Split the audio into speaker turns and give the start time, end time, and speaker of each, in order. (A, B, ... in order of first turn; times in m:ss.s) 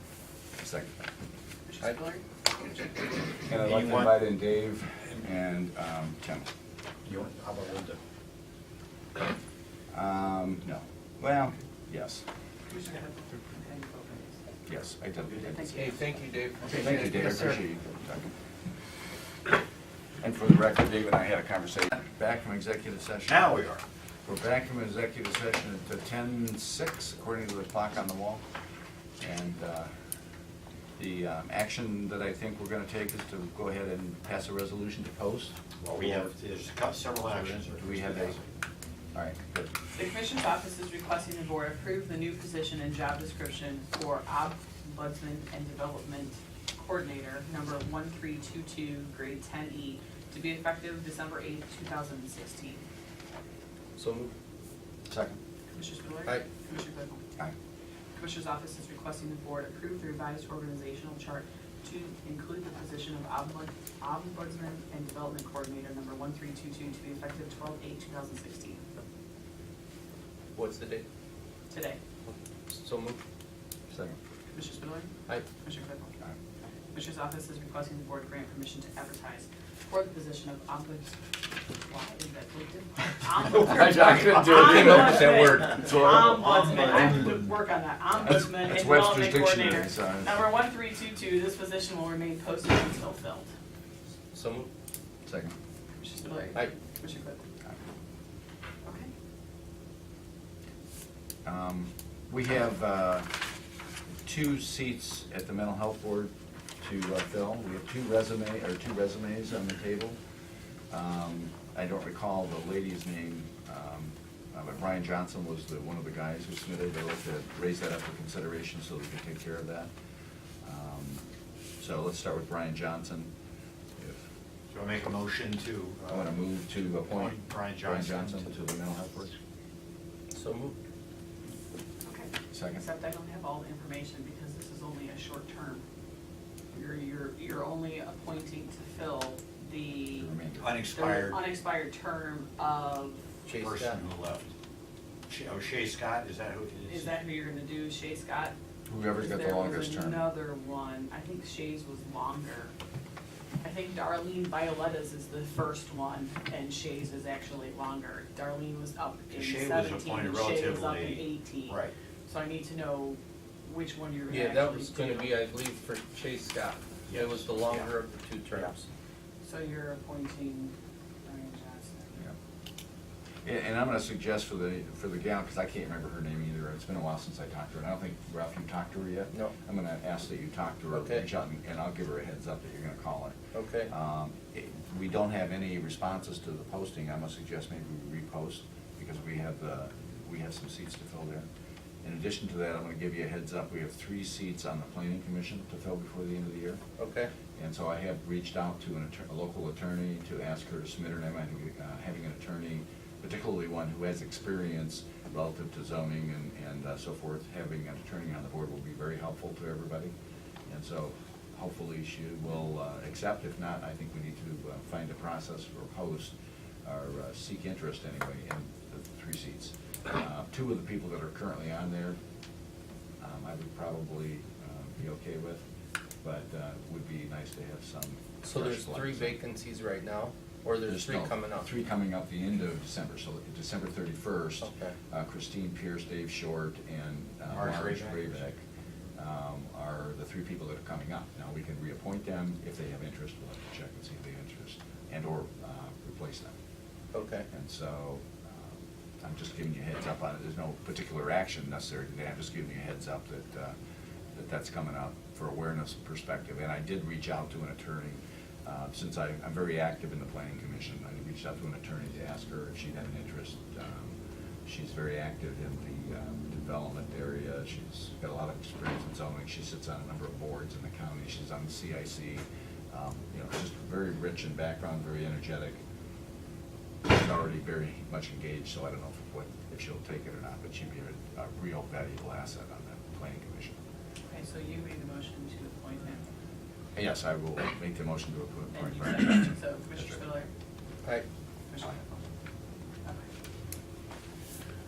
0:00.6-0:00.9 A
0:01.7-0:02.2 B
0:03.5-0:06.5 A
0:03.5-0:04.1 C
0:07.0-0:08.0 C
0:09.9-0:12.2 A
0:12.7-0:14.4 B
0:14.7-0:15.7 A
0:15.5-0:16.0 B
0:15.7-0:17.6 D
0:16.6-0:18.3 A
0:20.2-0:23.5 A
0:23.3-0:23.8 C
0:24.3-0:28.4 A
0:29.2-0:29.9 A
0:31.0-0:36.3 A
0:35.8-0:38.5 C
0:37.3-0:38.4 A
0:39.1-0:39.7 A
0:39.9-0:52.8 B
0:54.0-0:54.3 D
0:55.1-0:55.4 A
0:55.7-0:57.2 B
0:58.2-1:08.8 B
1:10.6-1:11.0 D
1:11.7-1:12.0 B
1:12.3-1:13.2 D
1:13.9-1:14.2 A
1:14.5-1:16.2 B
1:16.9-1:21.2 B
1:21.8-1:33.5 B
1:23.5-1:26.0 D
1:24.6-1:25.2 A
1:25.9-1:27.6 C
1:26.0-1:26.4 A
1:28.3-1:30.4 A
1:34.3-1:34.7 D
1:35.2-1:35.6 A
1:36.0-1:37.4 B
1:38.8-1:39.1 B
1:41.4-1:43.3 A
1:44.2-1:50.2 A
1:50.9-1:59.9 A
2:00.6-2:01.2 A
2:01.8-2:03.3 A
2:04.0-2:04.3 A
2:04.7-2:08.5 C
2:06.1-2:09.4 A
2:10.3-2:10.8 D
2:12.0-2:15.8 B
2:12.5-2:12.8 A
2:16.7-2:20.3 B
2:20.2-2:20.8 A
2:20.6-2:21.4 C
2:20.9-2:23.2 B
2:23.4-2:24.0 D
2:23.5-2:24.5 C
2:25.3-2:27.2 C
2:26.9-2:28.5 B
2:28.9-2:30.3 A
2:29.2-2:32.7 B
2:33.6-2:45.3 B
2:39.3-2:41.9 C
2:44.3-2:48.9 D
2:47.1-2:47.9 C
2:49.4-2:50.7 B
2:51.2-2:52.2 B
2:53.4-3:11.5 A
3:00.9-3:01.2 D
3:03.5-3:03.9 D
3:12.0-3:16.8 A
3:17.0-3:17.3 D
3:17.6-3:30.1 A
3:30.7-3:42.2 A
3:43.2-3:45.6 A
3:46.2-3:49.4 A
3:48.4-3:51.7 D
3:50.9-3:58.6 A
3:54.6-3:55.0 D
3:57.5-3:58.4 C
3:59.2-4:06.5 A
4:07.1-4:07.5 D
4:07.5-4:13.8 A
4:14.4-4:35.8 A
4:37.0-4:43.8 A
4:44.3-4:46.2 B
4:47.0-4:50.2 A
4:48.7-4:50.5 B
4:51.7-4:52.2 B